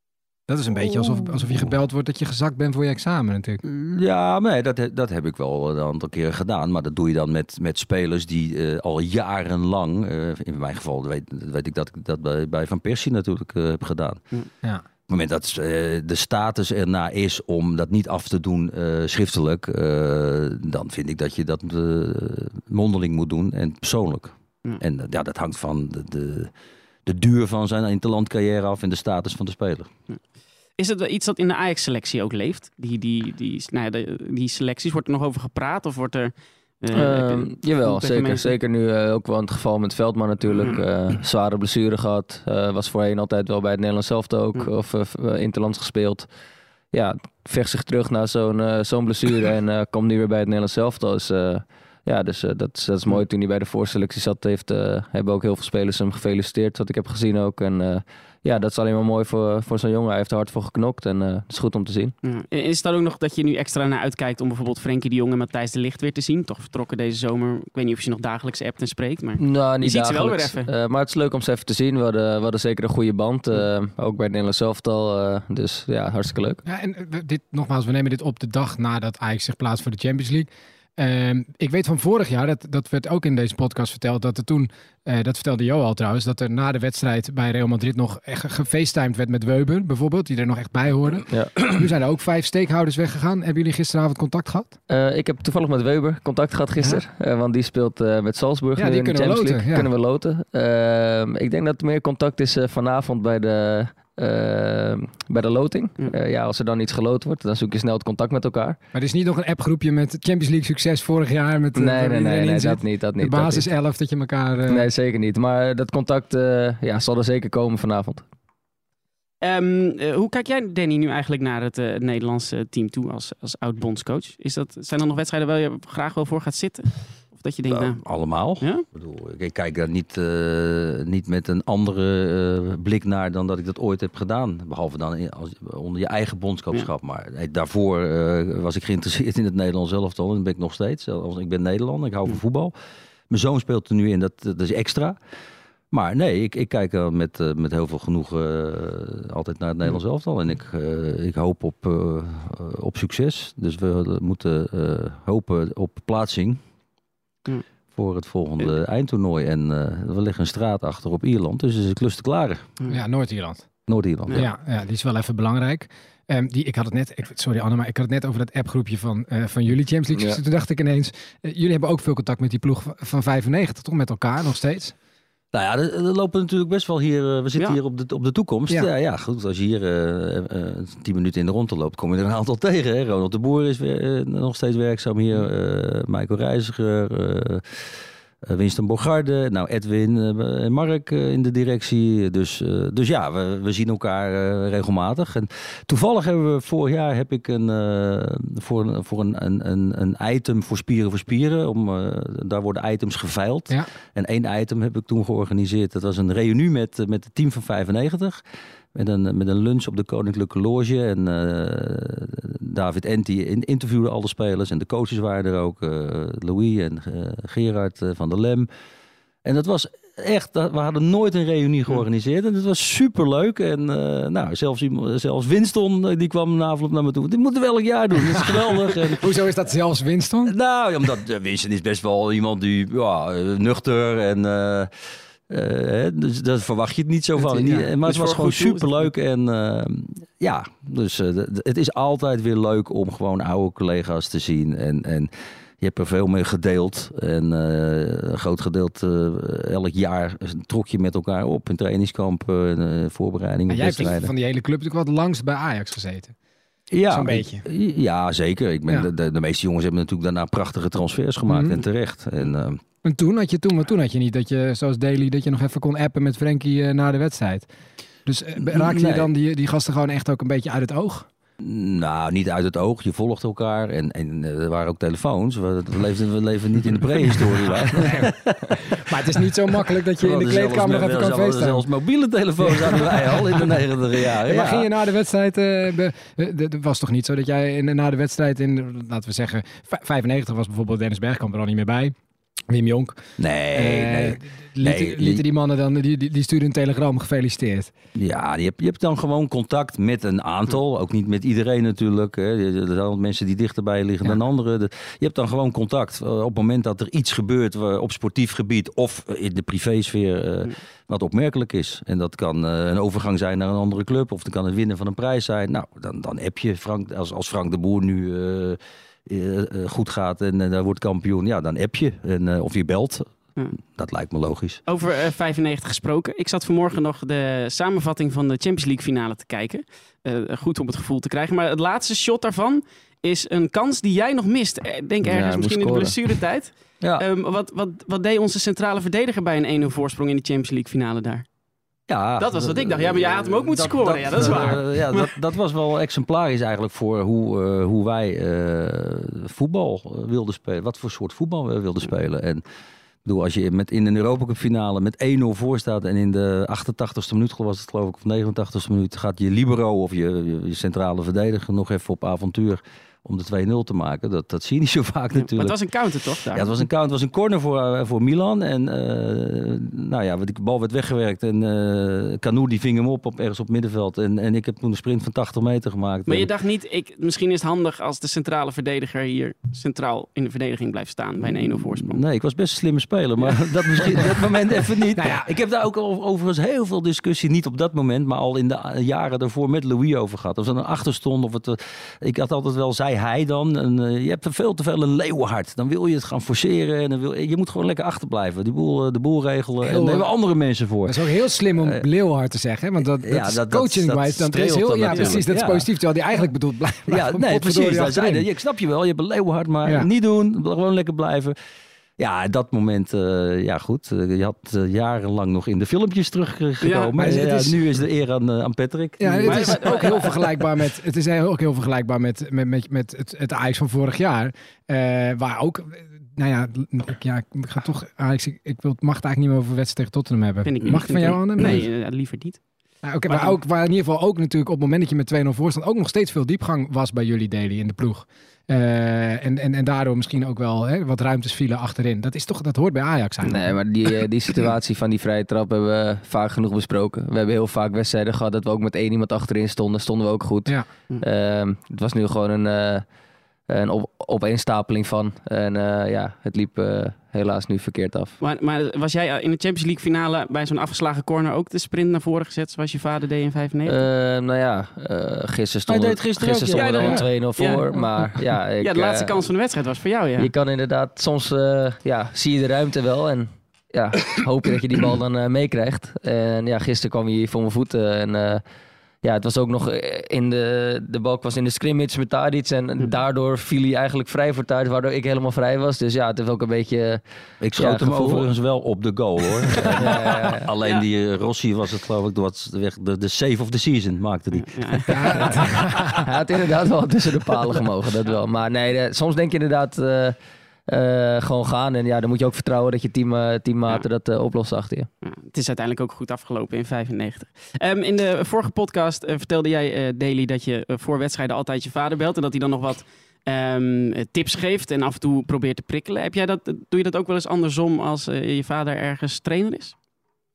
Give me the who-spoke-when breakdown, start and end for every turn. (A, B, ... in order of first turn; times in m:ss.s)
0:00.5-0:03.6 A
0:00.8-0:01.7 B
0:03.6-0:14.2 B
0:15.1-0:26.5 B
0:27.1-0:29.9 B
0:30.8-0:38.5 C
0:36.9-0:46.3 D
0:46.9-1:02.1 D
1:02.2-1:10.7 C
1:09.4-1:16.6 D
1:16.6-1:34.8 A
1:31.3-1:31.5 D
1:34.9-1:48.8 D
1:38.8-1:39.9 A
1:48.9-1:54.9 A
1:51.8-1:53.7 D
1:54.7-1:58.2 D
1:59.4-2:08.0 C
2:07.7-2:22.7 B
2:08.6-2:08.8 C
2:23.3-2:25.2 B
2:25.9-2:36.6 B
2:37.9-2:42.7 B
2:42.9-2:43.7 A
2:43.9-2:44.5 B
2:44.4-2:54.9 A
2:50.1-2:50.4 D
2:55.5-3:07.9 B
3:08.4-3:28.4 B
3:28.9-3:38.7 B
3:39.4-3:49.2 B
3:49.1-3:50.5 A
3:50.4-3:54.9 B
3:55.5-4:14.3 B
3:57.4-3:59.1 C
4:13.7-4:16.4 A
4:16.9-4:22.8 B
4:17.1-4:17.6 A
4:21.5-4:21.8 A
4:23.0-4:27.7 A
4:28.3-4:31.3 A
4:28.6-4:29.3 B
4:31.6-4:38.9 B
4:38.0-4:41.8 A
4:39.7-4:44.9 B
4:42.6-4:43.8 A
4:44.4-4:52.2 A
4:52.7-4:53.2 A
4:53.4-4:55.4 B
4:53.7-4:57.9 A
4:58.2-5:23.3 B
5:23.9-5:24.8 B
5:24.9-5:41.5 C
5:35.2-5:36.2 D
5:42.1-5:52.6 B
5:42.4-5:45.3 C
5:53.2-6:05.8 B
6:05.4-6:06.8 C
6:06.5-6:16.5 B
6:16.3-6:22.2 C
6:21.4-6:41.2 B
6:25.2-6:25.5 A
6:39.8-6:40.3 A
6:41.1-6:48.4 A
6:41.7-6:42.0 B
6:43.2-6:45.9 B
6:47.1-6:51.6 B
6:52.2-7:00.2 B
6:56.8-6:57.3 C
6:57.2-6:57.8 A
6:59.2-7:11.9 A
6:59.4-7:00.4 C
7:10.6-7:12.6 C
7:13.0-7:23.7 A
7:13.3-7:13.6 C
7:23.4-7:33.0 D
7:33.7-7:38.4 D
7:38.4-7:44.0 C
7:43.9-7:49.4 D
7:45.9-7:47.3 B
7:46.7-7:50.5 C
7:50.4-7:58.6 D
7:59.2-8:07.2 D
8:07.6-8:15.9 B
8:07.7-8:08.5 D
8:09.9-8:10.7 D
8:14.5-8:15.8 C
8:15.1-8:16.2 A
8:16.2-8:20.4 D
8:20.9-8:25.1 D
8:25.2-8:39.9 C